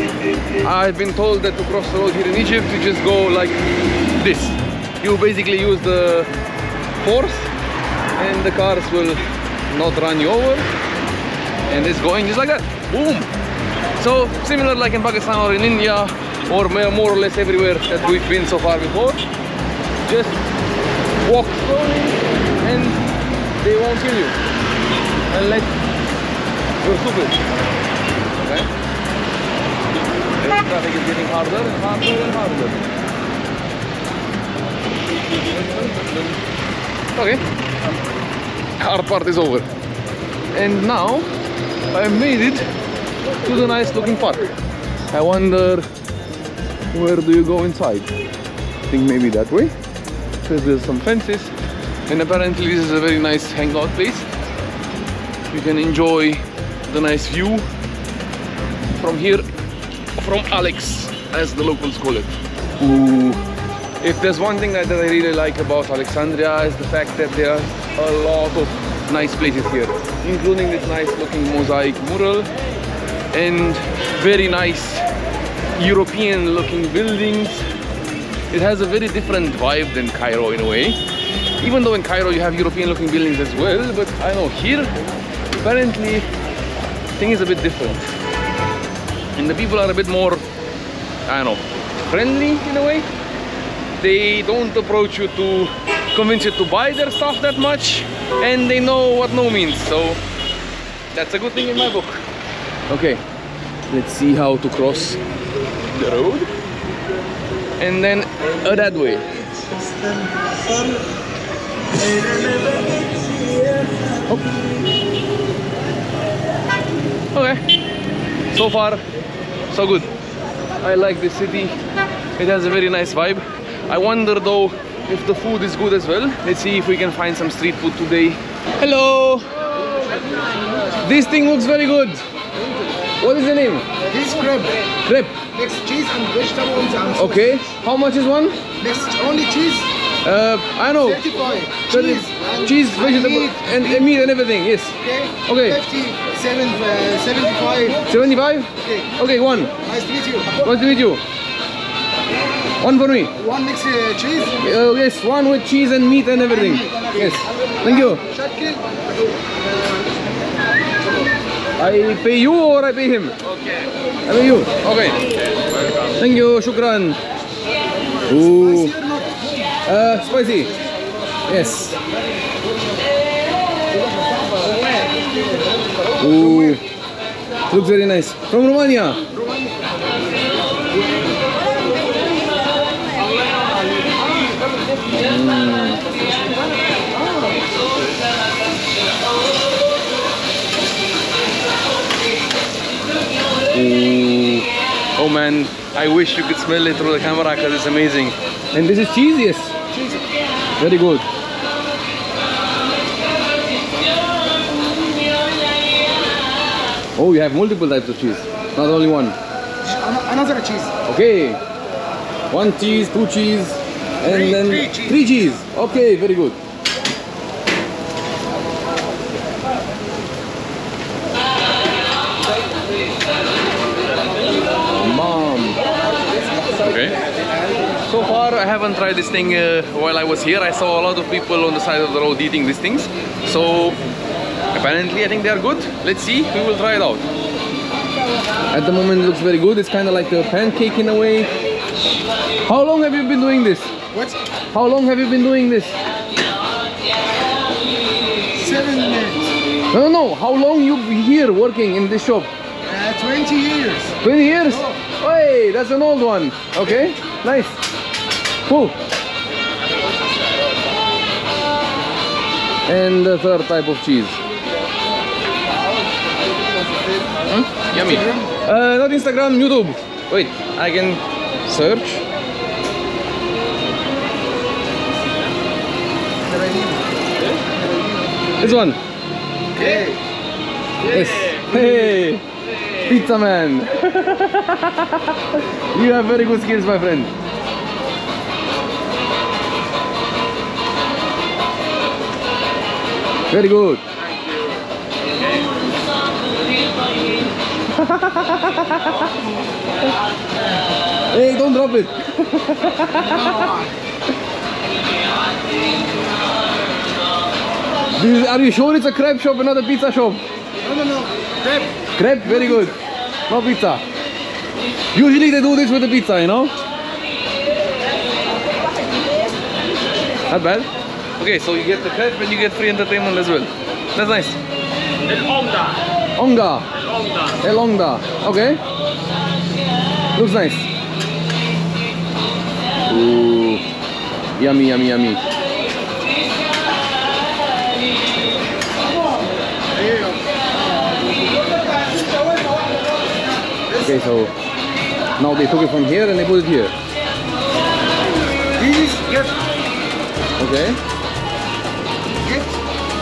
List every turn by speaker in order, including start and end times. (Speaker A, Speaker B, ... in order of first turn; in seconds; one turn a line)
Speaker A: 0.6-3.6
Speaker A: 4.2-6.3
Speaker A: 7.0-7.5
Speaker A: 8.2-10.7
Speaker A: 11.7-13.3
Speaker A: 14.0-19.2
Speaker A: 20.0-20.4
Speaker A: 21.2-23.0
Speaker A: 23.6-24.3
Speaker A: 25.3-25.7
Speaker A: 26.8-27.4
Speaker A: 28.4-28.7
Speaker A: 30.4-32.9
Speaker A: 35.5-36.3
Speaker A: 37.1-37.4
Speaker A: 38.8-39.7
Speaker A: 40.5-41.3
Speaker A: 41.9-42.7
Speaker A: 43.4-44.5
Speaker A: 45.1-45.9
Speaker A: 46.9-48.1
Speaker A: 48.9-49.7
Speaker A: 50.4-51.5
Speaker A: 52.1-54.2
Speaker A: 55.5-57.6
Speaker A: 59.0-59.4
Speaker A: 60.1-63.4
Speaker A: 64.0-72.5
Speaker A: 73.3-75.0
Speaker A: 75.8-77.6
Speaker A: 78.5-81.0
Speaker A: 81.6-84.9
Speaker A: 85.6-86.2
Speaker A: 87.2-88.0
Speaker A: 89.3-90.4
Speaker A: 91.3-93.1
Speaker A: 94.0-100.2
Speaker A: 101.1-102.2
Speaker A: 102.9-103.2
Speaker A: 103.9-105.2
Speaker A: 105.9-106.5
Speaker A: 107.8-110.0
Speaker A: 112.1-112.8
Speaker A: 114.1-114.6
Speaker A: 117.3-117.6
Speaker A: 118.5-119.0
Speaker A: 119.7-120.1
Speaker A: 120.8-121.8
Speaker A: 122.4-129.5
Speaker B: 130.1-130.9
Speaker A: 131.0-132.2
Speaker A: 133.2-133.8
Speaker B: 134.1-134.8
Speaker A: 135.1-135.4
Speaker B: 135.5-137.6
Speaker A: 137.1-138.6
Speaker B: 138.8-139.9
Speaker A: 140.2-141.3
Speaker B: 140.9-144.1
Speaker A: 141.9-145.8
Speaker B: 145.0-148.3
Speaker A: 148.1-149.7
Speaker B: 148.8-149.1
Speaker B: 149.8-150.7
Speaker A: 150.6-151.2
Speaker A: 152.8-153.3
Speaker B: 153.4-154.5
Speaker A: 154.6-158.2
Speaker B: 156.5-159.5
Speaker A: 161.8-163.5
Speaker A: 164.3-167.2
Speaker A: 168.3-168.9
Speaker B: 168.3-169.7
Speaker A: 169.8-170.7
Speaker A: 171.5-172.0
Speaker B: 174.2-176.8
Speaker A: 176.2-176.8
Speaker A: 177.7-179.2
Speaker B: 179.4-179.7
Speaker B: 180.8-182.5
Speaker B: 184.0-184.6
Speaker A: 185.1-186.3
Speaker A: 193.7-199.8
Speaker B: 199.9-200.2
Speaker A: 200.8-201.3
Speaker A: 207.2-209.4
Speaker B: 209.8-210.9
Speaker A: 211.1-211.6
Speaker A: 212.5-216.6
Speaker B: 214.2-215.3
Speaker A: 224.9-225.9
Speaker A: 226.7-227.2
Speaker A: 228.1-234.0
Speaker A: 234.7-237.2
Speaker A: 238.7-241.5
Speaker A: 242.6-243.9
Speaker B: 244.1-244.4
Speaker A: 244.7-246.0
Speaker B: 248.5-249.5
Speaker A: 249.9-252.5
Speaker B: 252.8-254.1
Speaker A: 254.2-257.8
Speaker B: 254.7-255.0
Speaker A: 258.7-258.9
Speaker A: 262.9-264.4
Speaker B: 266.9-267.2
Speaker A: 267.5-272.2
Speaker B: 268.0-268.5
Speaker B: 276.5-277.0
Speaker B: 277.7-278.7
Speaker A: 278.6-279.0
Speaker B: 279.8-280.2
Speaker A: 281.1-282.4
Speaker B: 281.2-282.0
Speaker A: 283.0-287.3
Speaker A: 293.5-294.0
Speaker A: 297.9-299.2
Speaker A: 301.3-303.8
Speaker B: 303.3-303.9
Speaker A: 308.1-310.4
Speaker B: 310.8-312.9
Speaker A: 312.1-313.0
Speaker A: 313.5-314.0
Speaker A: 315.1-316.7
Speaker A: 320.5-324.6
Speaker A: 326.4-326.9
Speaker A: 327.6-328.8
Speaker A: 330.3-330.9
Speaker A: 333.1-333.8
Speaker A: 334.6-335.4
Speaker B: 339.9-340.5
Speaker B: 343.9-344.2
Speaker A: 344.0-344.5
Speaker A: 345.4-346.9
Speaker B: 348.8-349.6
Speaker A: 350.6-351.0
Speaker B: 352.4-352.8